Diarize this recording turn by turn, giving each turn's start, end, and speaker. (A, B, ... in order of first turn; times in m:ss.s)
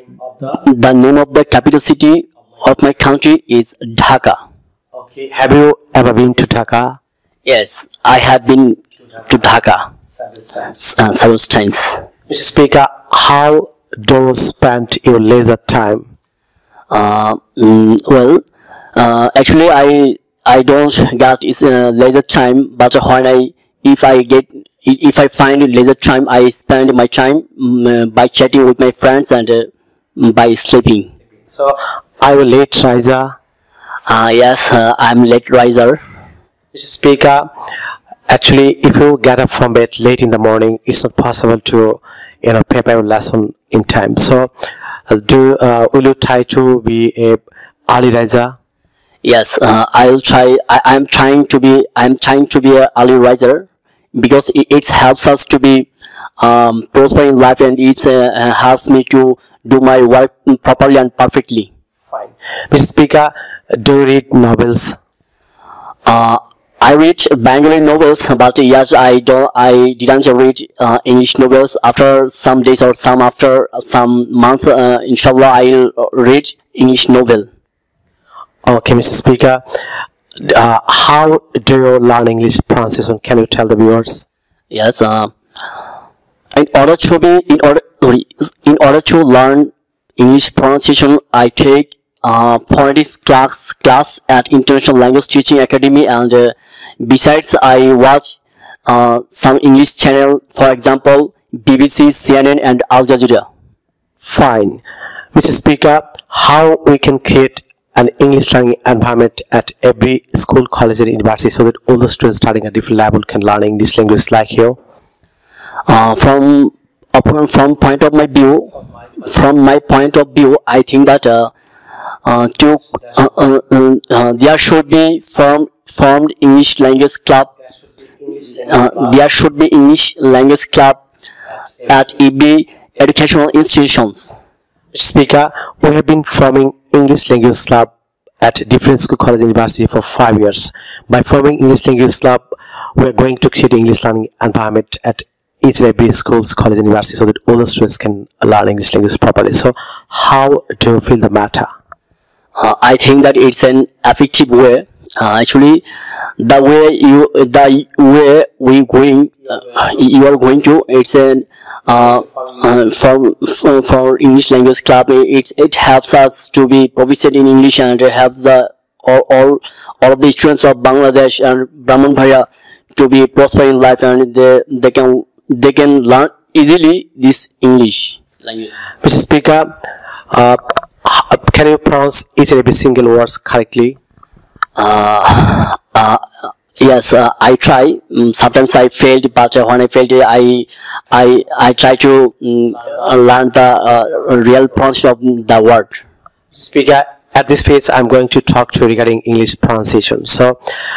0:00.1-0:00.6 A
0:00.6-0:04.4 B
0:04.9-0:07.0 A
0:07.4-0:09.9 B
0:10.0-0:10.7 A
0:10.8-0:12.0 B
0:12.3-0:16.1 A
0:16.9-0:18.4 B
0:18.9-0:31.1 B
0:31.5-0:33.3 A
0:34.1-0:36.0 B
0:36.7-0:37.5 A
0:38.3-0:44.5 A
0:45.1-0:48.5 A
0:49.2-0:55.9 B
0:56.4-1:01.7 B
1:02.1-1:05.0 A
1:06.0-1:17.5 B
1:18.6-1:19.6 A
1:20.4-1:24.2 A
1:24.7-1:25.3 B
1:26.6-1:43.4 B
1:44.2-1:44.8 A
1:45.3-1:54.8 A
1:55.9-2:01.5 B
2:02.2-2:07.5 B
2:07.7-2:09.2 A
2:08.6-2:11.0 B
2:11.9-2:14.4 B
2:14.9-2:22.4 A
2:23.0-2:31.7 A
2:32.6-2:35.8 B
2:36.4-2:58.7 B
2:41.9-2:42.6 A
2:59.0-2:59.7 A
3:00.3-3:04.0 A
3:04.8-3:06.2 B
3:06.8-3:16.0 B
3:16.5-3:20.6 A